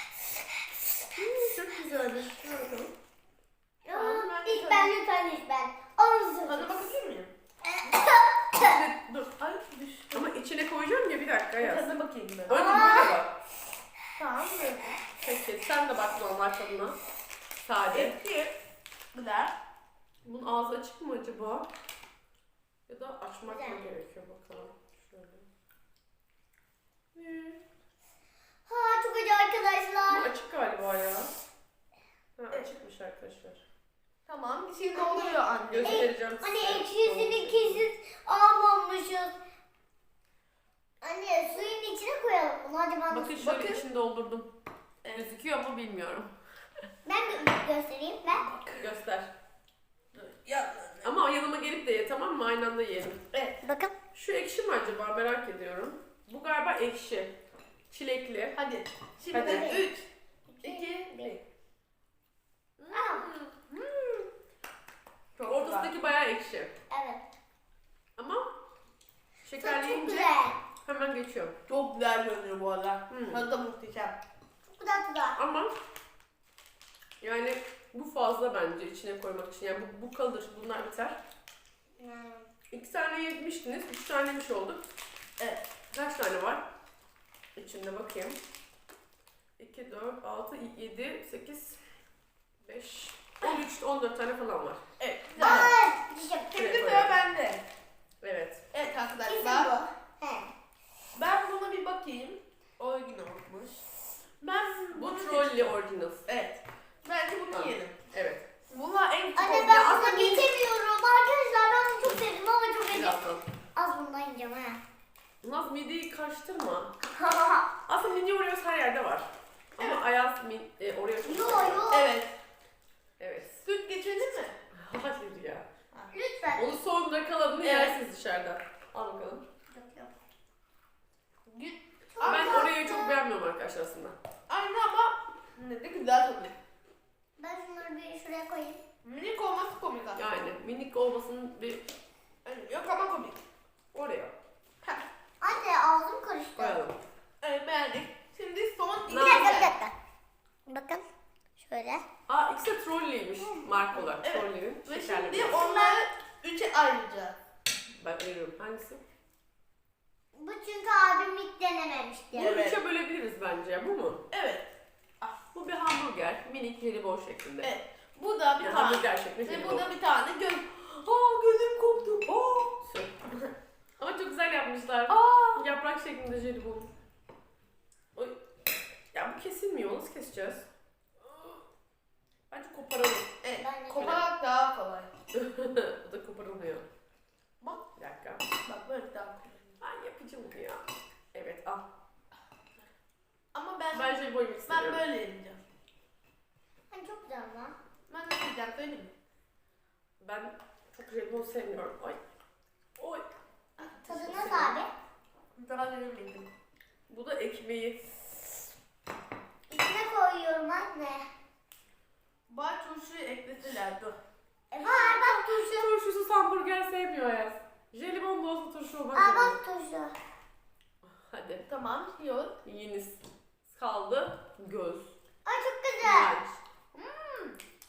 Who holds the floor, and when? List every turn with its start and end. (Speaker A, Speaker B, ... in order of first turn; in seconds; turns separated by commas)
Speaker A: 1.2-2.9, Speaker B: 3.8-6.7, Speaker C: 3.9-4.9, Speaker C: 6.5-7.3, Speaker B: 7.6-8.8, Speaker A: 8.6-9.3, Speaker C: 9.3-10.3, Speaker A: 10.1-11.9, Speaker C: 11.6-12.6, Speaker A: 12.5-13.3, Speaker B: 12.5-13.2, Speaker C: 14.2-14.9, Speaker A: 15.2-17.0, Speaker A: 17.6-18.2, Speaker C: 17.9-18.5, Speaker C: 19.1-19.6, Speaker A: 20.2-21.7, Speaker A: 22.9-25.5, Speaker B: 23.5-23.8, Speaker B: 28.7-30.3, Speaker A: 30.1-31.3, Speaker A: 32.4-33.6, Speaker C: 34.3-36.1, Speaker B: 35.0-39.4, Speaker A: 35.7-37.8, Speaker B: 41.0-43.4, Speaker A: 43.1-44.5, Speaker C: 43.4-43.8, Speaker C: 45.0-45.3, Speaker A: 45.1-46.3, Speaker B: 47.0-48.5, Speaker C: 48.5-48.9, Speaker A: 48.7-49.3, Speaker C: 50.1-51.1, Speaker A: 51.0-53.2, Speaker C: 53.3-53.6, Speaker B: 53.6-53.9, Speaker A: 54.1-57.4, Speaker A: 57.9-58.6, Speaker C: 58.6-60.1, Speaker A: 59.3-59.8, Speaker B: 59.4-59.9, Speaker B: 60.5-61.4, Speaker C: 60.6-61.4, Speaker A: 62.8-63.7, Speaker B: 62.9-63.3, Speaker C: 63.7-64.3, Speaker C: 65.4-65.9, Speaker A: 65.5-66.7, Speaker B: 66.9-67.2, Speaker A: 68.2-68.5, Speaker A: 69.4-70.3, Speaker B: 69.6-70.6, Speaker A: 70.8-71.5, Speaker C: 71.7-74.2, Speaker A: 73.1-73.5, Speaker B: 74.8-75.4, Speaker A: 75.4-75.7, Speaker A: 77.2-81.2, Speaker B: 82.0-82.5, Speaker A: 82.7-84.9, Speaker A: 85.9-86.6, Speaker A: 87.6-88.4, Speaker A: 89.6-91.8, Speaker A: 92.6-94.8, Speaker C: 95.0-95.7, Speaker B: 95.3-96.5, Speaker A: 95.4-95.7, Speaker C: 96.5-97.6, Speaker A: 96.5-97.2, Speaker A: 98.2-98.6, Speaker C: 98.7-99.7, Speaker B: 99.3-100.5, Speaker C: 101.2-103.8, Speaker C: 104.4-105.5, Speaker A: 104.9-106.2, Speaker C: 106.3-108.0, Speaker A: 107.5-108.5, Speaker C: 108.7-110.5, Speaker B: 109.4-113.2, Speaker A: 112.9-113.5, Speaker B: 113.8-114.8, Speaker A: 115.4-116.9, Speaker B: 117.0-117.7, Speaker A: 117.9-121.9, Speaker B: 121.2-122.1, Speaker C: 121.9-122.3, Speaker A: 123.2-123.6, Speaker C: 123.6-124.6, Speaker A: 124.7-125.7, Speaker B: 126.1-126.8, Speaker A: 126.6-129.5, Speaker C: 127.6-128.0, Speaker B: 129.7-130.1, Speaker C: 131.5-132.7, Speaker B: 132.1-133.2, Speaker A: 132.3-134.2, Speaker C: 134.5-136.5, Speaker B: 137.4-138.8, Speaker C: 139.0-140.2, Speaker A: 140.2-141.9, Speaker C: 142.4-143.4, Speaker A: 143.9-144.3, Speaker B: 145.4-146.8, Speaker A: 146.6-147.0, Speaker C: 147.4-149.7, Speaker A: 149.1-149.5, Speaker B: 149.1-149.9, Speaker B: 150.7-151.0, Speaker B: 151.6-152.0, Speaker A: 152.3-155.7, Speaker B: 153.4-153.7, Speaker C: 154.1-157.4, Speaker B: 155.5-156.0, Speaker A: 158.0-159.0, Speaker B: 160.3-162.6, Speaker C: 162.3-162.8, Speaker A: 162.3-164.2, Speaker C: 164.3-164.7, Speaker A: 165.5-167.7, Speaker C: 167.6-172.8, Speaker A: 168.6-169.9, Speaker A: 172.8-173.3, Speaker A: 174.0-176.9, Speaker C: 175.1-175.6, Speaker A: 179.1-180.7, Speaker A: 182.5-183.4, Speaker C: 183.4-185.1, Speaker B: 183.6-184.2, Speaker A: 185.3-186.9, Speaker A: 187.9-188.4, Speaker C: 188.6-189.7, Speaker A: 189.8-191.8, Speaker C: 193.5-195.6, Speaker A: 193.9-195.1, Speaker B: 196.9-197.8, Speaker C: 198.1-199.1, Speaker A: 200.2-202.2, Speaker A: 203.0-203.2, Speaker C: 203.8-204.7, Speaker B: 204.1-204.9, Speaker A: 204.3-204.8, Speaker C: 205.6-206.5, Speaker A: 207.1-208.0, Speaker B: 209.7-211.3, Speaker C: 212.5-214.2, Speaker B: 214.7-215.9, Speaker A: 214.8-219.6, Speaker B: 219.2-220.1, Speaker A: 221.1-221.7, Speaker C: 221.7-222.6, Speaker A: 222.6-225.1, Speaker B: 225.5-226.3, Speaker A: 226.0-226.6, Speaker C: 226.9-227.6